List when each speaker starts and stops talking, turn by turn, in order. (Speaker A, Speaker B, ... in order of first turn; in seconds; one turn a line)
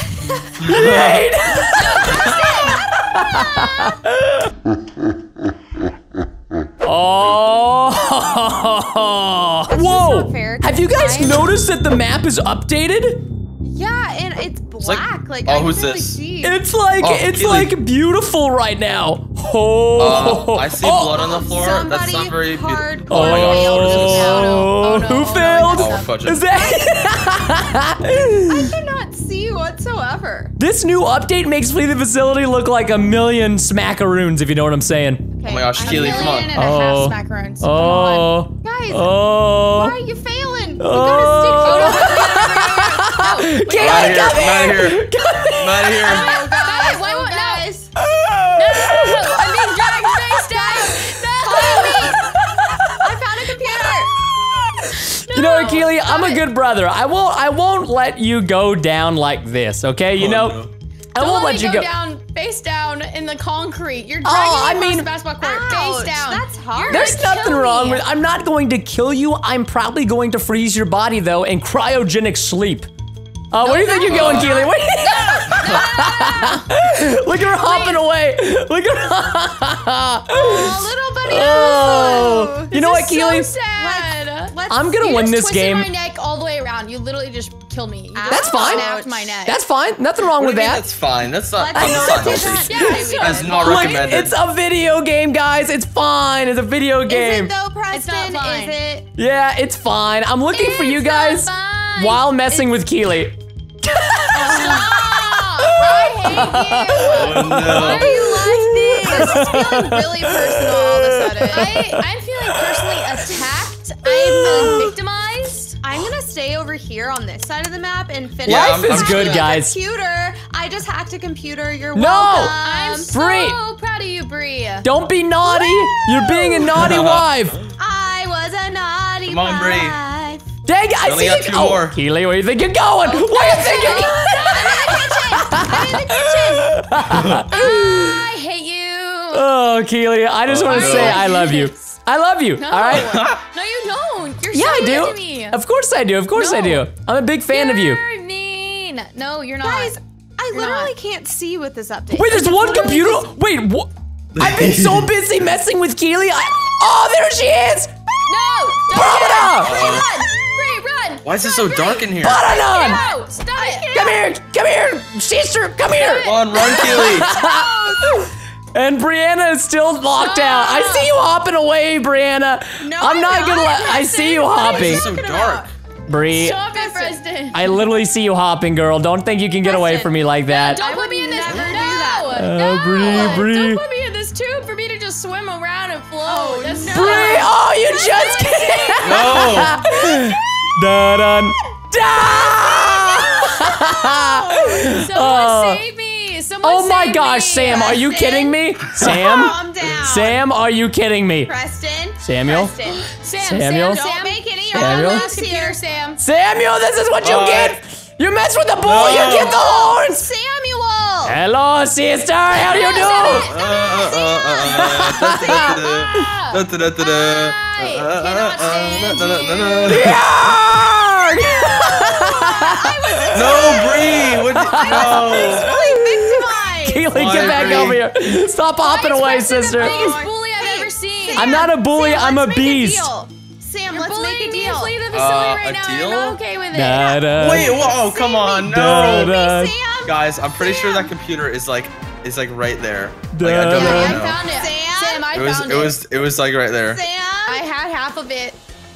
Speaker A: 0.6-1.3
Speaker B: 0.7-4.5
Speaker C: 1.7-2.8
Speaker D: 2.0-2.9
Speaker B: 6.8-13.2
Speaker C: 9.7-11.5
Speaker C: 13.6-16.6
Speaker A: 14.8-16.2
Speaker B: 16.4-21.2
Speaker A: 17.0-17.7
Speaker A: 20.0-24.4
Speaker C: 21.2-24.7
Speaker B: 23.1-28.7
Speaker D: 24.4-26.1
Speaker A: 25.6-26.4
Speaker C: 26.6-27.3
Speaker C: 28.4-30.6
Speaker B: 30.6-35.3
Speaker C: 35.4-36.5
Speaker A: 35.5-36.5
Speaker D: 35.8-38.4
Speaker B: 36.5-40.0
Speaker C: 38.6-43.8
Speaker B: 40.8-46.2
Speaker D: 41.7-42.5
Speaker D: 43.7-44.5
Speaker A: 43.8-46.3
Speaker D: 46.0-47.7
Speaker C: 46.2-47.9
Speaker B: 48.0-50.0
Speaker D: 48.5-52.2
Speaker C: 50.4-50.9
Speaker B: 51.1-53.0
Speaker C: 51.4-54.2
Speaker B: 54.7-60.6
Speaker D: 55.0-56.5
Speaker A: 60.2-60.7
Speaker B: 61.1-61.9
Speaker D: 61.1-68.1
Speaker B: 64.2-65.1
Speaker C: 65.4-67.2
Speaker B: 66.9-72.9
Speaker B: 73.5-83.5
Speaker C: 73.6-76.0
Speaker A: 74.1-74.7
Speaker D: 74.2-74.7
Speaker A: 75.5-75.8
Speaker D: 75.7-76.7
Speaker D: 77.4-78.0
Speaker D: 80.3-82.2
Speaker C: 81.0-82.7
Speaker D: 82.7-89.6
Speaker C: 83.7-85.0
Speaker B: 84.7-85.9
Speaker C: 88.1-89.5
Speaker B: 88.3-88.9
Speaker B: 89.5-90.8
Speaker A: 90.4-94.3
Speaker C: 91.6-93.8
Speaker B: 91.8-92.9
Speaker D: 92.5-94.2
Speaker B: 93.6-97.5
Speaker C: 97.1-99.1
Speaker D: 97.9-98.8
Speaker B: 99.2-112.0
Speaker D: 100.5-102.3
Speaker D: 104.3-108.0
Speaker C: 104.4-105.2
Speaker A: 107.1-108.2
Speaker C: 107.7-112.0
Speaker D: 111.5-115.8
Speaker B: 112.5-113.0
Speaker C: 114.0-114.9
Speaker B: 114.6-114.9
Speaker C: 115.8-123.1
Speaker A: 118.4-119.5
Speaker B: 118.5-119.8
Speaker B: 122.0-122.6
Speaker D: 122.5-124.9
Speaker B: 123.1-123.6
Speaker B: 124.8-127.6
Speaker C: 125.5-126.7
Speaker A: 126.7-127.3
Speaker C: 127.8-130.5
Speaker A: 129.3-130.0
Speaker B: 130.7-137.9
Speaker A: 131.0-132.0
Speaker C: 133.0-136.7
Speaker D: 133.4-135.4
Speaker A: 137.1-137.4
Speaker D: 137.5-139.5
Speaker B: 139.3-143.1
Speaker A: 140.5-141.3
Speaker D: 140.7-141.7
Speaker C: 141.2-141.5
Speaker D: 142.6-145.6
Speaker A: 142.9-143.4
Speaker B: 144.5-148.0
Speaker D: 146.3-146.9
Speaker D: 147.5-150.0
Speaker C: 149.6-152.4
Speaker D: 150.5-150.9
Speaker B: 152.1-157.9
Speaker D: 152.3-153.3
Speaker A: 154.3-155.1
Speaker D: 158.3-163.9
Speaker B: 158.9-159.8
Speaker A: 159.6-160.1
Speaker A: 161.2-162.5
Speaker B: 162.2-163.0
Speaker C: 162.5-164.2
Speaker B: 163.9-175.1
Speaker D: 165.9-166.6
Speaker A: 166.2-167.3
Speaker C: 166.7-168.3
Speaker D: 170.1-171.1
Speaker C: 172.8-175.7
Speaker A: 174.6-175.7
Speaker B: 176.1-176.6
Speaker D: 176.3-177.8
Speaker C: 176.7-177.2
Speaker B: 177.5-180.8
Speaker C: 179.6-182.5
Speaker D: 180.5-190.3
Speaker B: 182.3-183.8
Speaker C: 186.2-187.5
Speaker B: 186.9-195.8
Speaker A: 189.0-189.8
Speaker C: 192.2-194.8
Speaker D: 194.9-198.2
Speaker B: 196.6-201.5
Speaker C: 197.7-200.4
Speaker C: 201.5-203.1
Speaker B: 202.2-202.7
Speaker D: 203.1-206.2
Speaker B: 203.4-204.0
Speaker C: 203.9-205.8
Speaker B: 204.7-205.3
Speaker B: 206.2-210.2
Speaker A: 207.2-207.8
Speaker A: 208.8-209.6
Speaker C: 209.3-211.4
Speaker B: 211.2-213.5
Speaker C: 212.6-214.8
Speaker D: 213.0-214.2
Speaker A: 213.5-220.2
Speaker B: 214.6-215.7
Speaker D: 215.4-220.2
Speaker B: 219.9-230.2
Speaker C: 222.5-227.9
Speaker A: 223.3-225.8
Speaker A: 227.1-228.0
Speaker D: 228.8-231.7
Speaker C: 229.7-235.0
Speaker B: 231.3-233.1
Speaker D: 233.9-237.4
Speaker A: 235.1-236.4
Speaker B: 236.7-238.0
Speaker A: 237.3-239.4
Speaker C: 238.0-241.1
Speaker B: 238.6-239.7
Speaker A: 240.1-244.4
Speaker B: 243.3-244.2
Speaker D: 243.7-246.0
Speaker C: 244.4-245.3
Speaker A: 245.3-247.0
Speaker C: 246.9-247.7
Speaker D: 247.5-248.6